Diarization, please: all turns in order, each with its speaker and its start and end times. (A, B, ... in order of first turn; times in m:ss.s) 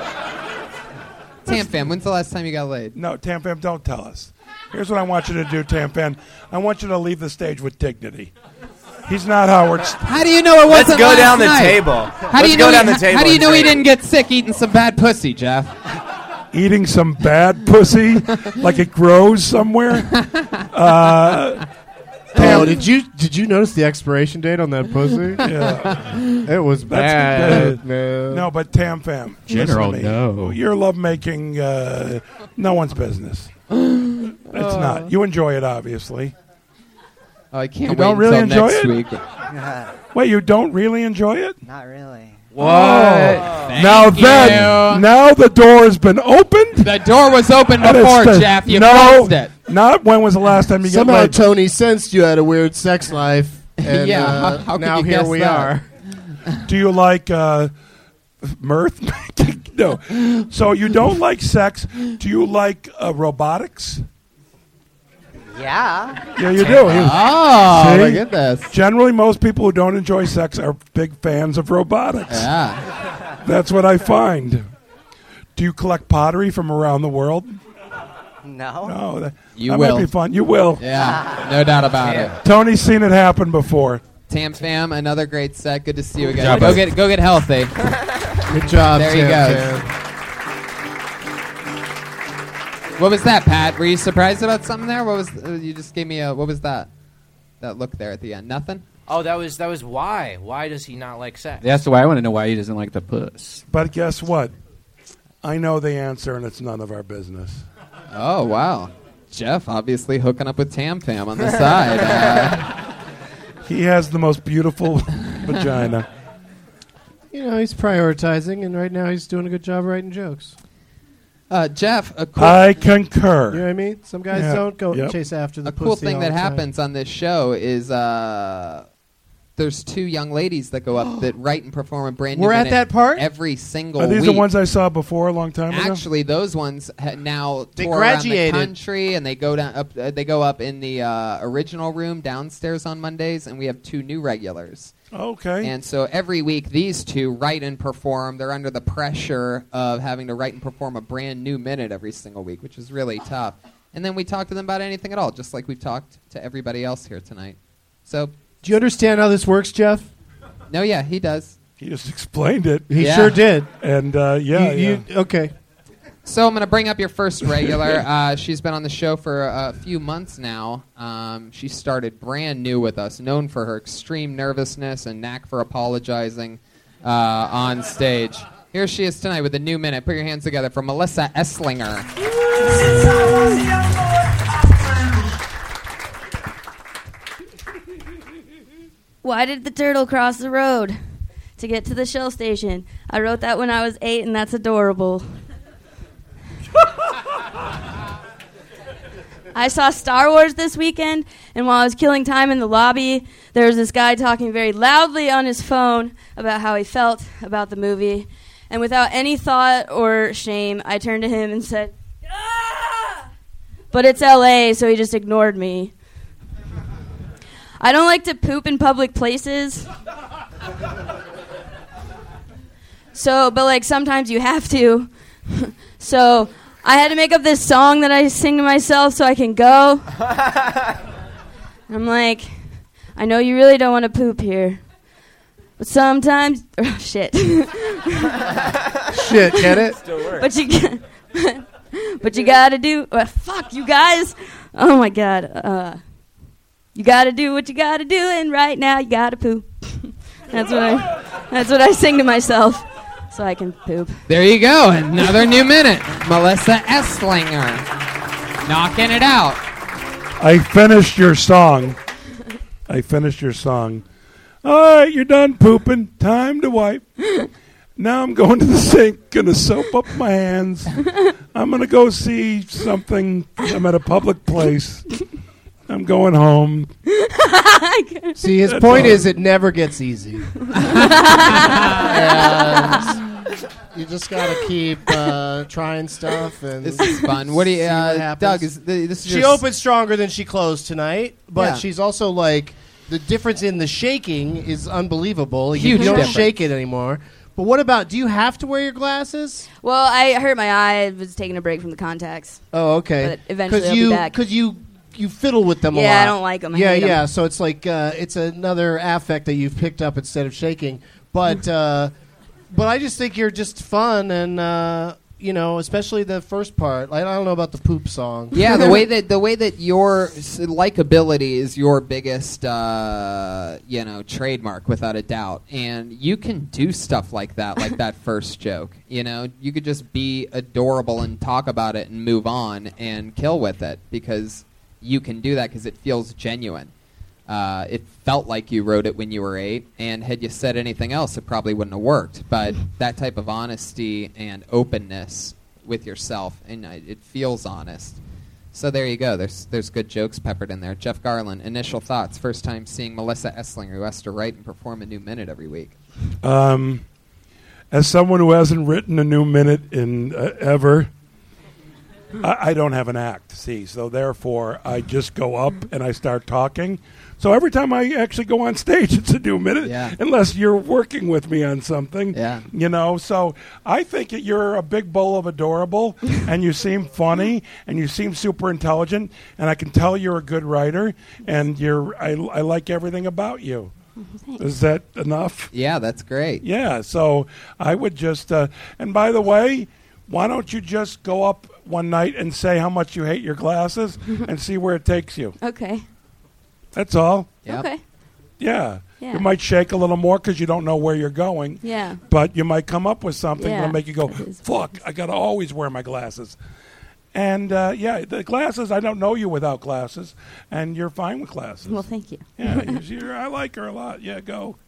0:01.4-0:03.0 A
0:02.9-0:08.3 B
0:09.1-0:10.0 B
0:10.0-0:15.7 A
0:10.7-0:13.7 C
0:16.5-0:21.6 B
0:20.1-0:20.7 A
0:22.3-0:22.8 B
0:22.3-0:25.5 D
0:25.4-0:26.2 B
0:26.4-0:28.5 D
0:26.9-0:36.3 B
0:27.3-0:27.6 E
0:29.5-0:30.6 E
0:37.5-0:39.2 A
0:37.8-0:38.9 B
0:39.5-0:39.9 F
0:40.1-0:41.6 B
0:41.6-0:42.4 F
0:42.6-0:43.8 C
0:42.6-0:46.9 B
0:42.6-0:43.3 E
0:43.5-0:45.0 A
0:46.8-0:49.5 A
0:47.8-0:51.4 B
0:50.8-0:55.8 D
0:53.8-0:55.7 A
0:56.6-0:57.7 B
0:58.4-1:04.0 B
1:05.5-1:06.2 F
1:06.3-1:12.5 B
1:06.6-1:08.7 A
1:12.3-1:12.8 A
1:13.4-1:14.6 B
1:15.6-1:17.5 B
1:18.4-1:19.0 F
1:18.8-1:20.8 B
1:19.5-1:20.1 A
1:20.8-1:22.4 A
1:20.9-1:21.4 F
1:22.0-1:22.4 C
1:22.4-1:24.0 B
1:24.3-1:27.8 A
1:26.4-1:26.9 E
1:28.5-1:29.9 D
1:28.9-1:29.7 A
1:33.0-1:36.9 A
1:37.6-1:38.8 A
1:39.1-1:41.7 C
1:41.6-1:43.6 E
1:43.7-1:44.5 B
1:45.4-1:47.6 B
1:48.1-1:52.7 A
1:53.6-1:56.0 B
1:57.3-2:00.5 D
2:01.5-2:02.8 A
2:02.4-2:03.6 B
2:03.5-2:06.6 D
2:04.3-2:05.1 B
2:05.6-2:08.8 A
2:09.6-2:14.5 A
2:12.3-2:13.2 D
2:14.0-2:16.0 B
2:15.7-2:24.9 A
2:17.8-2:18.7 D
2:25.1-2:25.7 B
2:25.6-2:38.3 A
2:38.6-2:40.1 D
2:40.7-2:41.6 A
2:41.8-2:43.0 B
2:42.9-2:43.7 D
2:43.0-2:43.4 A
2:43.7-2:45.0 B
2:44.5-2:45.5 D
2:46.2-3:02.1 A
3:09.2-3:11.0 G
3:11.6-3:15.3 G
3:19.5-3:33.2 G
3:33.9-3:35.9 G
3:37.8-3:39.9 G
3:43.1-3:50.0 G
3:51.9-3:52.5 G
3:53.2-3:54.8 G
3:55.8-3:58.4 G
3:59.1-4:00.0 D
3:59.3-4:06.0 G
4:06.9-4:14.2 G
4:14.3-4:17.9 A
4:18.6-4:19.6 A
4:20.4-4:22.0 B
4:22.9-4:24.0 B
4:24.6-4:27.0 B
4:28.0-4:30.9 B
4:31.5-4:35.0 B
4:35.9-4:36.9 B
4:37.1-4:38.5 G
4:38.4-4:40.5 D
4:38.7-4:39.3 B
4:40.7-4:43.2 G
4:41.9-4:43.2 D
4:43.9-4:48.7 D
4:46.8-4:49.6 A
4:49.2-4:59.7 D
4:51.6-4:51.8 A
4:55.7-4:56.5 A
4:55.8-4:56.4 G
4:59.8-5:02.6 G
5:02.7-5:12.1 D
5:03.2-5:04.4 G
5:05.9-5:07.2 G
5:12.7-5:18.5 D
5:18.5-5:36.9 A
5:37.5-5:48.2 A
5:48.7-5:55.9 A
5:56.4-5:57.0 B
5:57.9-6:01.1 B
6:02.4-6:23.9 B
6:09.8-6:10.1 A
6:12.3-6:12.7 A
6:24.6-6:25.7 B
6:25.7-6:26.6 A
6:26.6-6:35.5 B
6:35.6-6:36.0 G
6:36.9-6:37.6 B
6:37.6-6:38.0 G
6:38.6-6:46.6 B
6:39.2-6:39.5 G
6:41.8-6:42.2 G
6:43.6-6:45.0 G
6:47.3-6:52.0 B
6:51.8-6:53.0 G
6:52.6-6:54.8 B